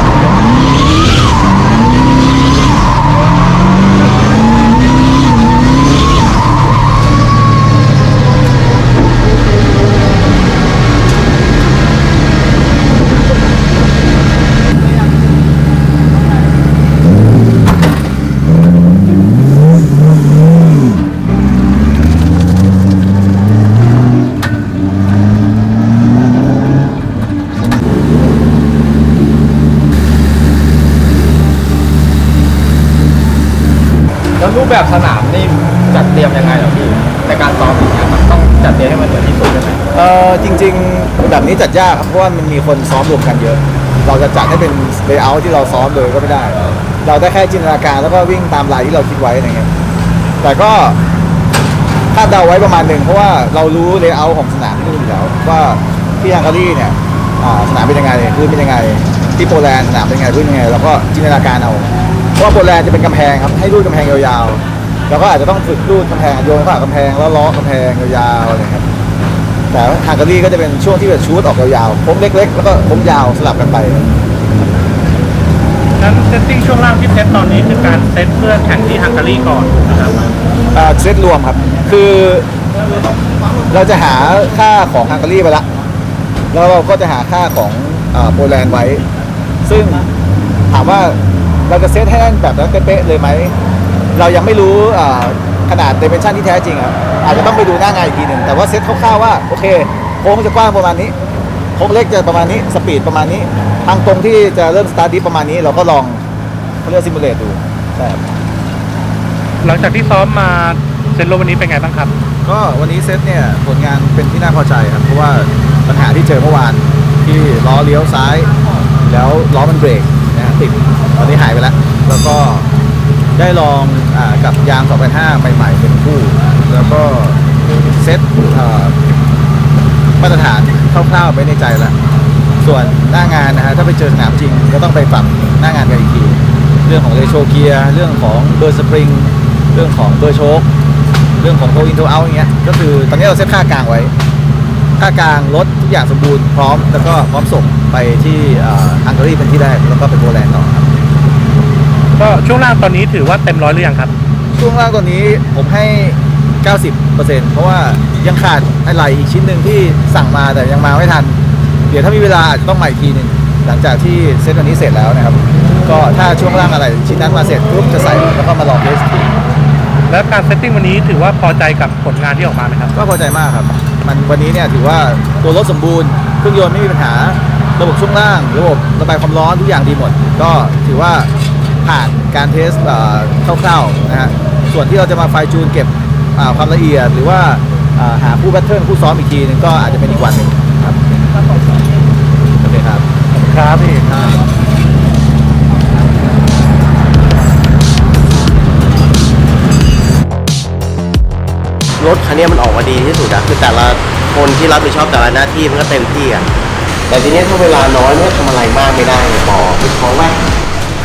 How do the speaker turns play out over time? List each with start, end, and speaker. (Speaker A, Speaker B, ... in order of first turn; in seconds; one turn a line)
Speaker A: 34.4-39.8
Speaker B: 39.9-49.7
Speaker B: 50.4-51.0
Speaker B: 52.1-68.8
Speaker B: 69.7-74.0
Speaker C: 76.0-80.2
Speaker B: 80.7-82.5
Speaker B: 83.7-85.7
Speaker B: 86.5-89.0
Speaker B: 89.7-90.1
Speaker B: 90.7-93.5
Speaker B: 94.1-101.1
Speaker B: 101.8-106.2
Speaker B: 106.8-108.3
Speaker C: 109.6-112.1
Speaker B: 112.4-118.5
Speaker B: 119.0-122.7
Speaker B: 123.4-127.4
Speaker B: 127.9-128.9
Speaker B: 130.2-131.9
Speaker B: 132.6-140.7
Speaker B: 141.4-144.1
Speaker B: 145.0-150.9
Speaker C: 152.2-154.1
Speaker B: 154.5-161.4
Speaker B: 161.9-169.4
Speaker C: 170.1-172.9
Speaker B: 172.9-181.3
Speaker B: 181.8-191.0
Speaker B: 192.6-193.0
Speaker C: 193.4-194.4
Speaker D: 202.0-206.5
Speaker D: 207.1-210.4